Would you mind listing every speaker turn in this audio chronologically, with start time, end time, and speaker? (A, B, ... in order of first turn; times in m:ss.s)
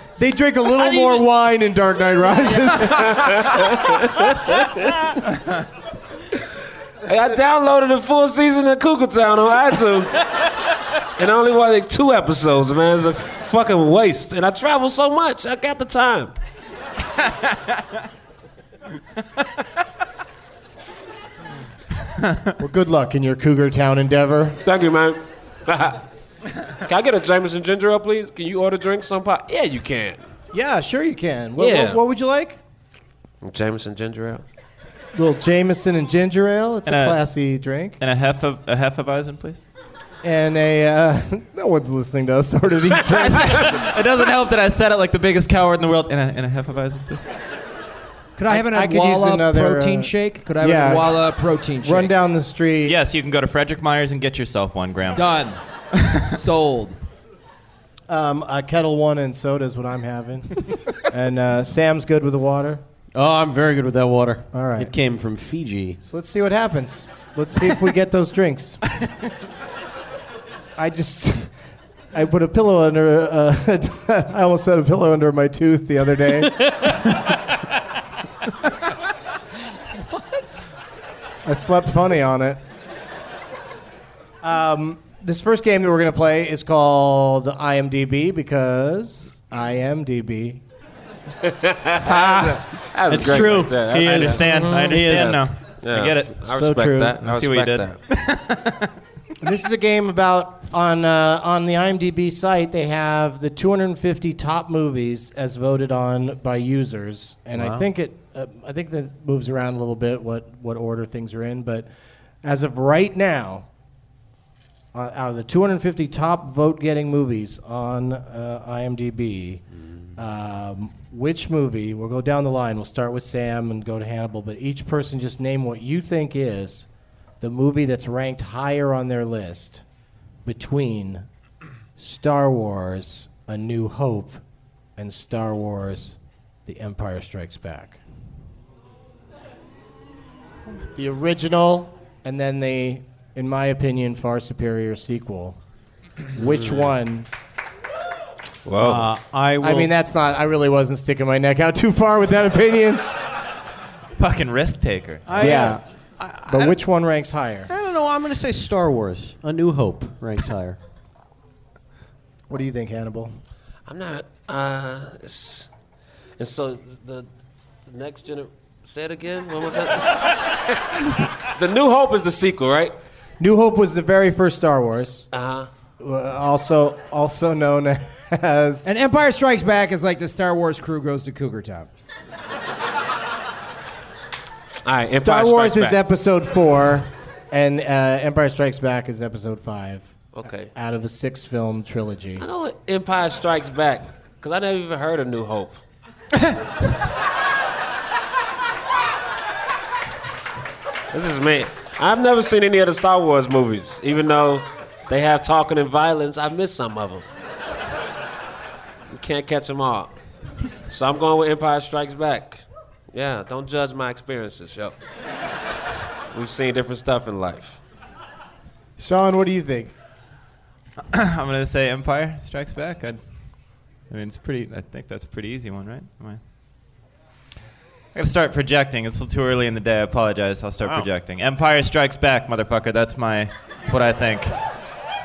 0:00.2-0:03.1 A
0:00.8-0:01.2 B
0:02.8-0:05.1 B
0:07.0-0:10.2 B
0:11.2-0:16.4 B
0:22.6-0:24.6 A
0:24.6-0:26.0 B
0:26.8-0:30.2 B
0:30.5-0:32.6 A
0:31.6-0:32.0 B
0:33.4-0:34.4 B
0:35.2-0:38.0 A
0:36.9-0:37.2 C
0:38.0-0:39.6 C
0:40.2-0:43.8 A
0:43.2-0:47.2 C
0:48.4-0:52.1 D
0:48.5-0:51.2 A
0:51.8-0:53.0 A
0:52.8-0:55.5 C
0:55.1-0:55.6 D
0:56.2-0:57.0 D
0:58.1-1:02.8 A
1:03.2-1:06.0 E
1:04.5-1:04.9 A
1:06.0-1:08.8 A
1:10.8-1:11.5 A
1:12.1-1:16.9 A
1:21.4-1:22.6 A
1:24.4-1:30.6 A
1:31.4-1:34.4 B
1:32.2-1:32.6 C
1:33.1-1:35.4 E
1:33.9-1:36.5 C
1:34.5-1:35.1 A
1:35.0-1:38.0 B
1:36.5-1:37.2 A
1:37.2-1:38.9 C
1:39.4-1:51.9 A
1:47.6-1:47.8 E
1:52.4-1:53.6 A
1:54.9-1:59.6 A
2:00.2-2:06.9 A
2:07.4-2:09.8 A
2:10.4-2:11.2 A
2:12.0-2:14.4 A
2:15.0-2:18.0 A
2:21.0-2:25.6 A
2:26.3-2:27.3 A
2:28.7-2:29.1 B
2:28.8-2:29.9 E
2:29.6-2:33.0 A
2:34.2-2:35.6 C
2:35.3-2:36.8 E
2:35.4-2:35.8 A
2:36.5-2:37.7 A
2:37.7-2:40.8 E
2:42.5-2:43.3 A
2:43.9-2:45.7 B
2:46.4-2:47.3 B
2:47.9-2:50.6 B
2:51.5-2:52.9 B
2:53.4-2:55.3 A
2:55.3-2:55.7 B
2:56.0-2:58.9 A
2:58.8-3:01.9 D
3:04.8-3:06.0 B
3:05.1-3:10.1 A
3:10.4-3:10.7 B
3:10.7-3:12.5 A
3:12.4-3:15.8 B
3:21.1-3:27.2 B
3:29.1-3:30.2 B
3:30.9-3:35.0 B
3:36.3-3:37.8 B
3:39.0-3:39.9 A
3:41.1-3:43.2 C
3:44.1-3:46.4 C
3:48.2-3:54.6 C